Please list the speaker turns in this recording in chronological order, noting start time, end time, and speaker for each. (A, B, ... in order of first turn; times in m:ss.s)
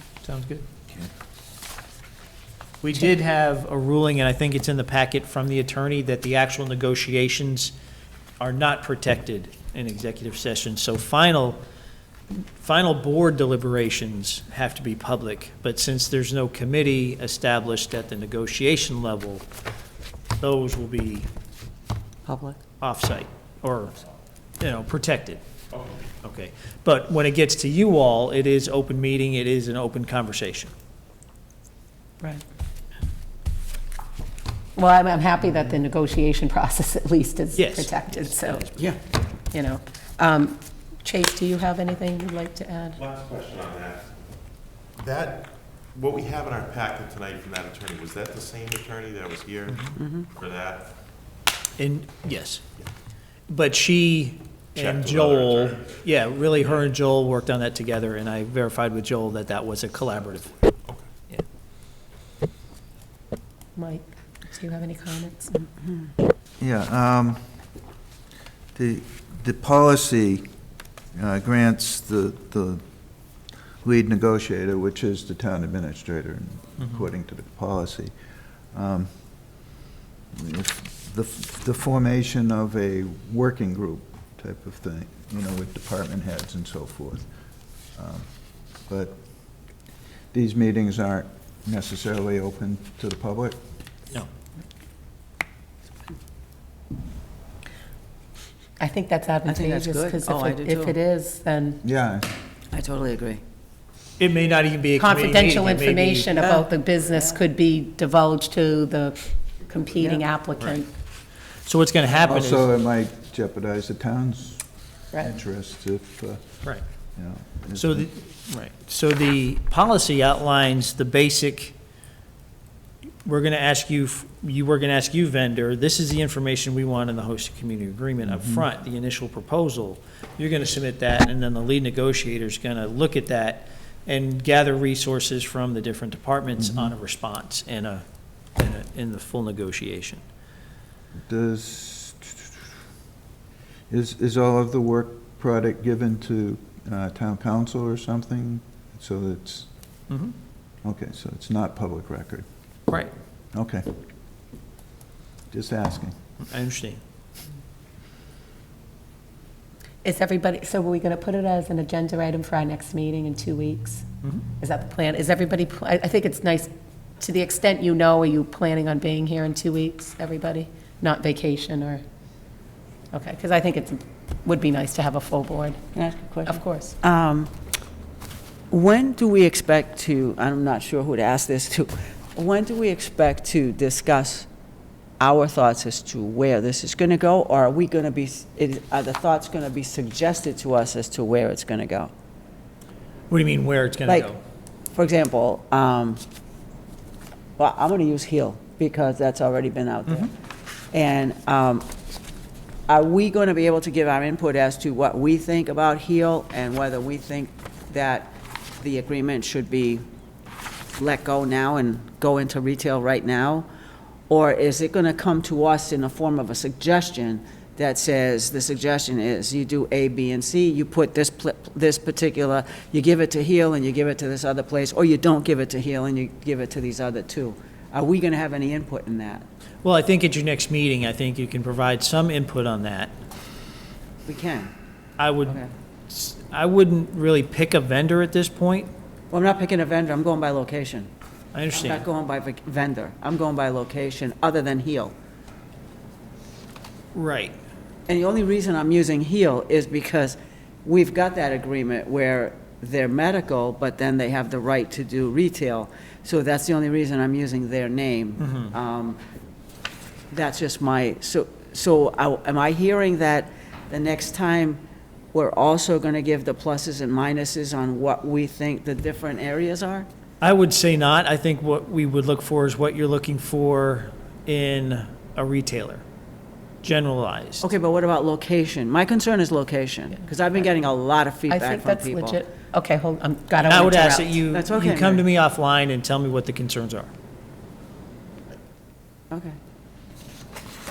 0:00.2-0:00.6 A
0:02.8-0:07.7 A
0:08.4-0:11.6 A
0:12.3-0:19.4 A
0:20.4-0:21.3 A
0:22.2-0:22.6 B
0:22.8-0:24.0 A
0:24.6-0:25.4 A
0:26.2-0:30.7 A
0:34.7-0:38.7 C
0:37.5-0:38.9 A
0:39.5-0:43.0 C
0:43.0-0:44.1 D
0:45.0-0:50.8 D
0:49.7-0:49.9 A
0:50.0-0:50.2 B
0:51.8-0:52.6 A
0:53.5-1:00.7 A
0:54.8-0:55.9 D
1:03.8-1:05.5 C
1:05.6-1:06.1 B
1:06.6-1:07.4 E
1:08.7-1:10.5 E
1:11.1-1:18.1 E
1:18.7-1:19.7 E
1:20.3-1:27.3 E
1:27.9-1:29.6 E
1:30.3-1:33.6 E
1:38.8-1:41.8 C
1:39.4-1:41.0 B
1:41.8-1:42.3 E
1:42.7-1:43.4 B
1:44.2-1:46.6 A
1:45.0-1:50.9 C
1:47.1-1:47.4 B
1:50.0-1:50.2 B
1:51.6-1:52.7 A
1:52.2-1:56.5 E
1:57.2-1:58.1 E
1:57.7-2:01.8 A
2:03.2-2:18.0 A
2:08.2-2:08.6 E
2:16.6-2:16.9 E
2:18.6-2:20.2 A
2:21.3-2:22.6 E
2:23.9-2:29.7 E
2:30.1-2:30.3 A
2:30.8-2:32.4 E
2:33.5-2:33.9 E
2:35.5-2:36.1 E
2:36.4-2:37.0 A
2:40.0-2:44.0 C
2:44.6-2:52.0 C
2:53.1-2:55.8 C
2:55.9-2:57.5 B
2:56.4-2:57.0 C
2:58.7-3:04.5 B
3:05.2-3:12.1 B
3:13.3-3:14.4 A
3:14.0-3:14.3 B
3:14.9-3:16.2 B
3:17.6-3:20.3 B
3:20.9-3:21.8 B
3:22.9-3:30.0 B
3:31.0-3:33.7 B
3:34.3-3:49.4 B
3:49.8-3:53.1 A
3:54.2-3:54.7 B
3:55.2-3:58.9 A
3:55.4-3:55.7 B
3:59.3-4:01.1 B
4:01.5-4:02.0 A
4:01.7-4:05.1 B
4:07.1-4:07.6 A
4:08.1-4:19.2 B
4:18.4-4:18.7 A
4:20.3-4:24.8 B
4:25.3-4:30.1 B
4:30.4-4:36.0 A
4:36.8-4:37.7 A
4:37.6-4:42.4 B
4:41.5-4:44.5 C
4:43.6-4:47.1 A
4:44.5-4:45.2 B
4:49.3-4:49.6 B